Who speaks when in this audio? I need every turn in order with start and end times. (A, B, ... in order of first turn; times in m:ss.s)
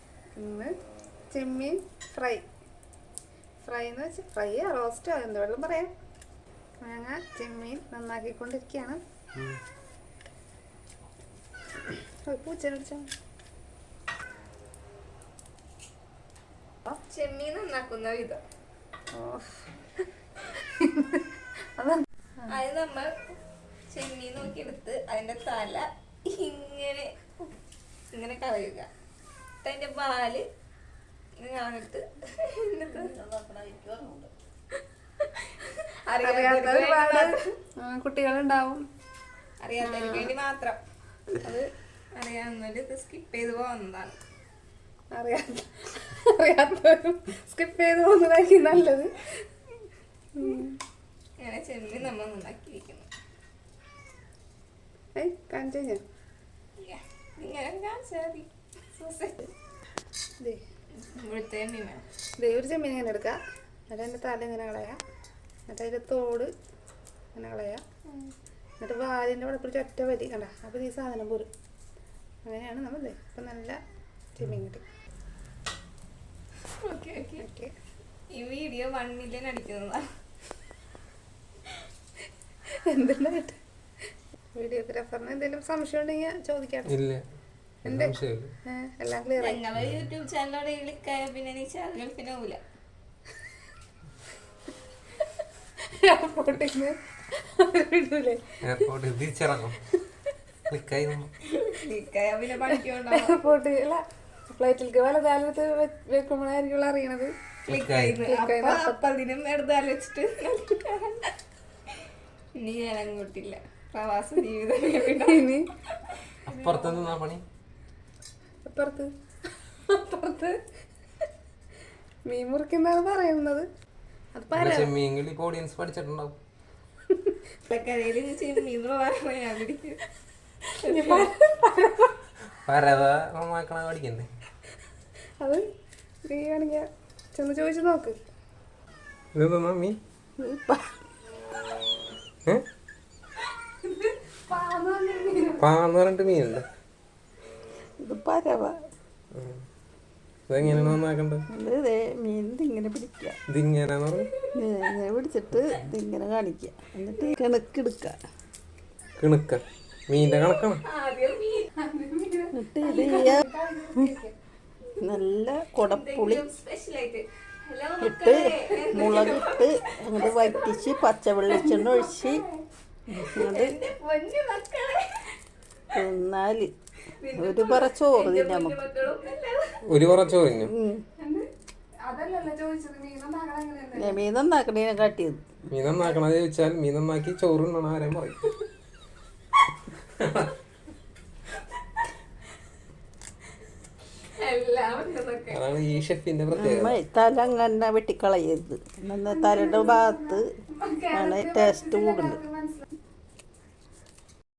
0:00.4-0:00.7 A
0:01.3-0:02.4 A
0:03.6-0:05.9 A
0:06.8-0:09.0 A
0:12.2-0:13.0 A
0:17.1-0:18.4 B
0:19.1-0:19.7 A
0:20.5-0:21.2 A
0:21.8-0:22.5 A
0:22.5-0:23.1 B
0:23.9-0:27.1 B
0:28.1-0:28.9 B
0:29.6-0:30.5 B
0:31.4-0:33.1 B
0:32.9-0:34.3 C
0:36.1-0:37.5 B
0:36.2-0:38.8 A
0:39.6-0:40.8 B
0:39.8-0:40.3 A
0:41.4-0:41.7 A
0:42.2-0:44.2 B
0:45.1-0:49.1 A
0:50.3-0:50.8 A
0:51.4-0:53.1 B
0:55.2-0:56.0 A
0:56.8-0:59.5 B
1:01.0-1:02.0 B
1:02.4-1:03.4 A
1:03.9-1:05.0 A
1:05.7-1:06.5 A
1:07.3-1:07.8 A
1:08.8-1:11.5 A
1:12.4-1:13.8 A
1:14.4-1:14.8 A
1:16.8-1:17.4 B
1:17.4-1:17.7 A
1:18.3-1:20.0 B
1:22.8-1:23.6 A
1:24.6-1:26.9 A
1:26.9-1:27.2 D
1:27.8-1:28.5 D
1:27.9-1:29.6 A
1:29.4-1:32.6 B
1:36.0-1:38.6 A
1:38.6-1:39.8 D
1:40.7-1:41.3 D
1:41.7-1:43.4 B
1:43.1-1:47.3 A
1:47.7-1:48.2 D
1:47.7-1:51.3 B
1:48.2-1:49.0 A
1:52.6-1:55.6 B
1:55.1-1:55.7 A
1:56.5-1:57.4 D
1:56.5-1:57.1 B
1:58.6-1:59.1 A
1:59.9-2:00.6 A
2:02.3-2:03.7 A
2:04.3-2:04.9 A
2:04.6-2:06.4 D
2:07.7-2:10.0 B
2:10.8-2:11.3 B
2:10.8-2:12.1 A
2:12.7-2:14.3 D
2:16.2-2:18.2 A
2:19.3-2:20.0 D
2:20.4-2:20.8 C
2:24.0-2:25.6 A
2:25.6-2:26.7 D
2:28.0-2:28.8 C
2:29.3-2:29.6 D
2:30.5-2:31.4 D
2:30.6-2:30.9 C
2:31.5-2:33.4 C
2:33.5-2:34.3 D
2:34.5-2:38.2 C
2:39.2-2:40.8 D
2:40.8-2:41.7 B
2:41.8-2:44.3 A
2:42.5-2:43.5 C
2:45.0-2:46.5 C
2:45.8-2:51.0 B
2:48.0-2:52.4 C
2:51.6-2:52.4 B
2:53.1-2:53.8 C
2:53.2-2:55.3 B
2:55.9-2:56.7 C
2:57.2-2:59.6 B
2:57.4-2:58.8 C
2:59.9-3:00.7 D
3:00.7-3:01.0 C
3:02.1-3:04.2 A
3:04.0-3:05.4 C
3:05.7-3:08.4 D
3:10.2-3:10.5 D
3:14.4-3:15.6 B
3:15.5-3:17.0 D
3:16.6-3:20.4 C
3:19.6-3:22.8 A
3:21.1-3:22.4 C